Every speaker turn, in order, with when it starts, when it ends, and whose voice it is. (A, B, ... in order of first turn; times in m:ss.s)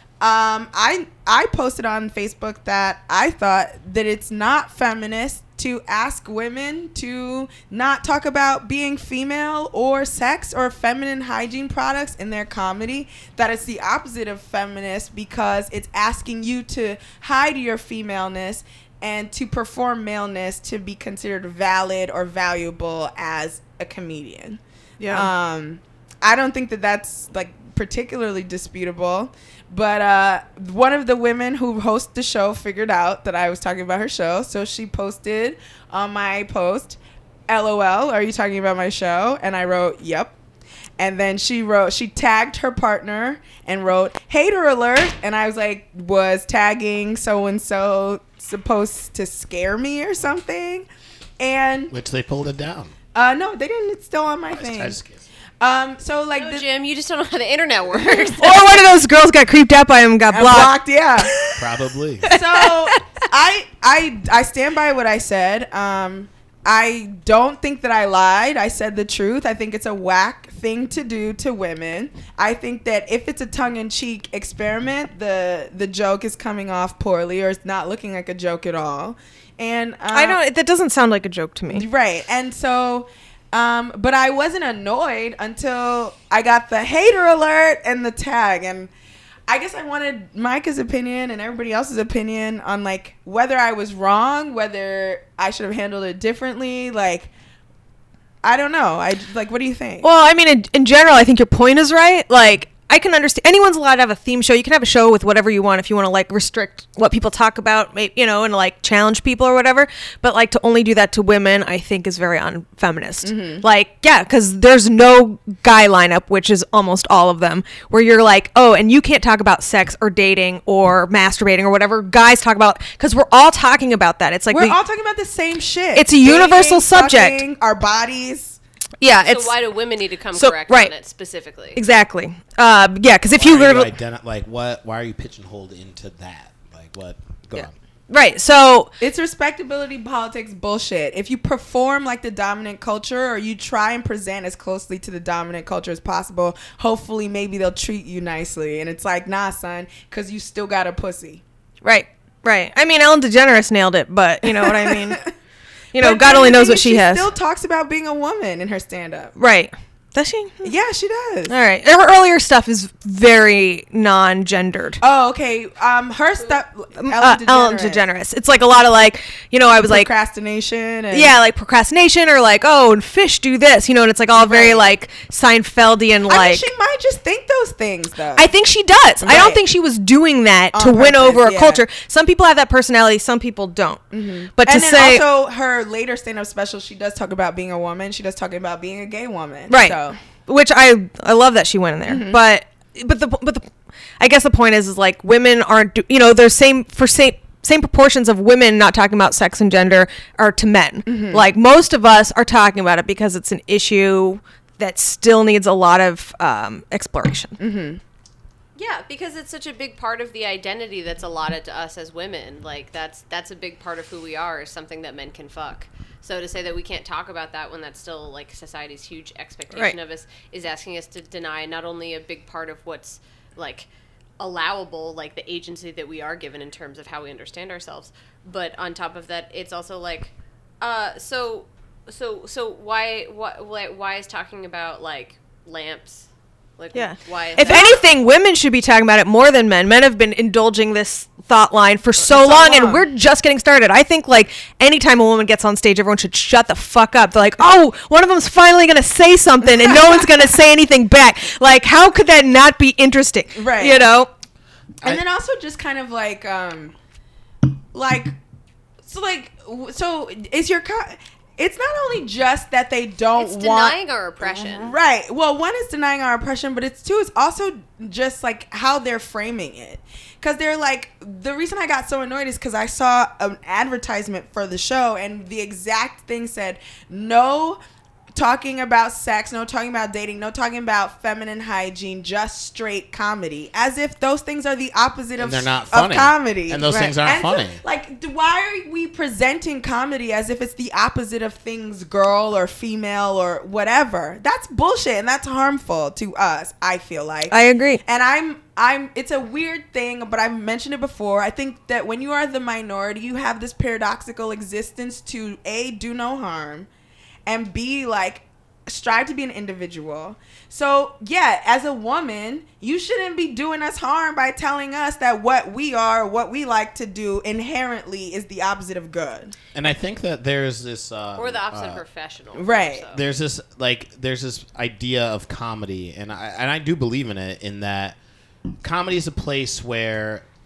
0:00.2-0:40.3 A
0:25.0-0:25.3 B
0:41.0-0:50.9 A
0:51.4-0:51.9 A
0:51.9-0:52.9 C
0:53.1-0:55.0 A
0:54.5-0:55.2 C
0:55.6-0:56.7 A
0:56.3-0:58.6 D
0:57.9-0:58.4 A
0:58.4-1:01.6 B
1:00.3-1:01.3 A
1:01.6-1:02.3 C
1:02.2-1:03.0 B
1:02.2-1:20.4 A
1:20.1-1:21.8 B
1:21.7-1:28.9 A
1:29.5-1:37.3 A
1:38.4-1:40.1 A
1:40.0-2:04.8 B
1:53.2-1:53.6 A
2:04.5-2:08.6 A
2:05.9-2:07.4 B
2:09.0-2:09.5 B
2:09.2-2:11.8 D
2:10.3-2:10.9 B
2:11.7-2:13.9 B
2:13.3-2:17.7 C
2:17.5-2:18.9 B
2:19.0-2:31.4 A
2:31.8-2:35.2 B
2:34.4-2:35.3 A
2:35.9-2:37.3 B
2:36.0-2:39.4 A
2:39.4-2:40.7 B
2:40.6-2:41.5 A
2:41.5-2:45.0 B
2:45.0-2:48.0 A
2:47.0-2:50.1 B
2:49.8-2:51.4 A
2:51.1-2:56.6 B
2:54.3-2:54.9 A
2:56.3-2:58.5 A
2:58.4-3:04.0 B
2:59.2-2:59.6 A
3:00.7-3:01.8 A
3:04.1-3:10.2 A
3:04.6-3:05.2 B
3:09.7-3:13.7 B
3:12.0-3:12.4 A
3:14.2-3:27.6 B
3:21.0-3:21.4 A
3:27.6-3:28.0 A
3:28.8-3:56.3 D
3:56.8-3:58.0 D
3:56.9-4:14.3 B
3:57.6-3:58.0 A
4:02.2-4:03.1 A
4:09.6-4:10.3 A
4:13.5-4:14.1 A
4:15.0-4:16.9 A
4:17.9-4:18.3 A
4:19.0-4:37.8 A
4:23.4-4:24.9 D
4:38.3-5:06.9 A
4:45.4-4:47.8 C
4:57.5-4:58.0 B
5:07.4-5:19.6 A
5:19.7-5:22.0 C
5:21.4-5:23.2 D
5:22.5-5:23.1 A
5:23.1-5:28.2 C
5:28.8-5:30.4 C